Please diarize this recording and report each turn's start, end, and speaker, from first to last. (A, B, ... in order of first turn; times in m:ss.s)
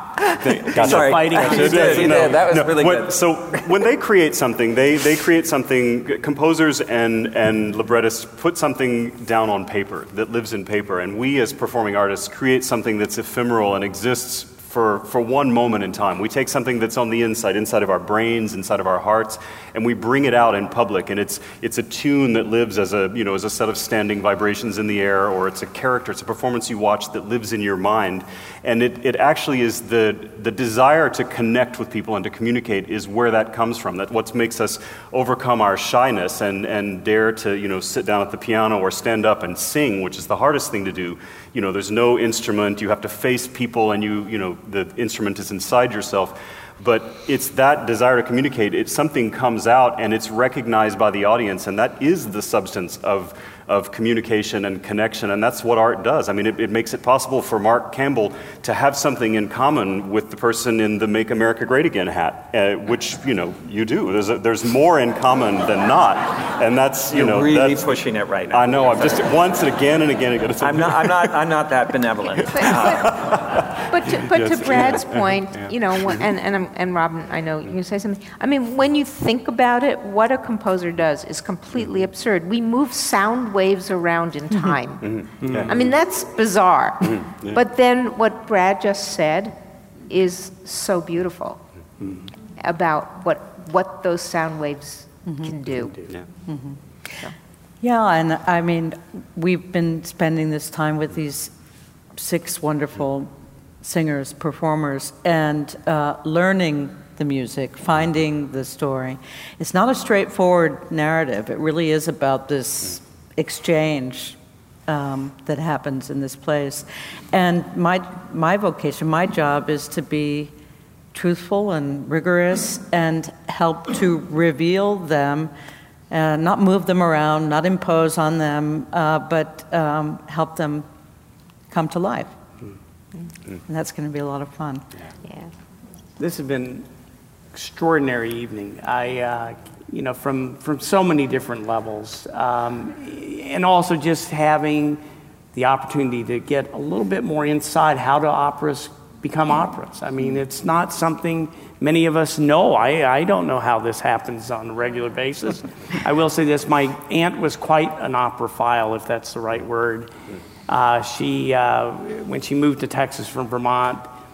0:00.2-0:03.9 A
0:00.4-1:07.9 B
0:00.6-0:02.4 C
1:07.1-1:09.4 A
1:08.5-1:11.3 B
1:10.6-1:13.4 A
1:12.6-1:13.1 D
1:12.7-1:13.3 B
1:13.8-1:29.6 D
1:14.2-1:15.4 B
1:25.0-1:25.7 B
1:25.4-1:25.7 C
1:27.2-1:27.6 B
1:30.1-1:31.6 D
1:32.6-1:36.0 D
1:36.5-1:36.8 E
1:37.8-1:41.5 E
1:42.2-1:43.3 E
1:43.8-2:00.5 E
2:01.1-2:05.5 E
2:06.1-2:10.8 E
2:11.7-2:12.3 E
2:13.7-2:14.8 E
2:15.2-2:15.5 D
2:16.2-2:16.9 C
2:17.5-2:25.0 C
2:25.5-2:40.1 C
2:40.7-2:44.1 C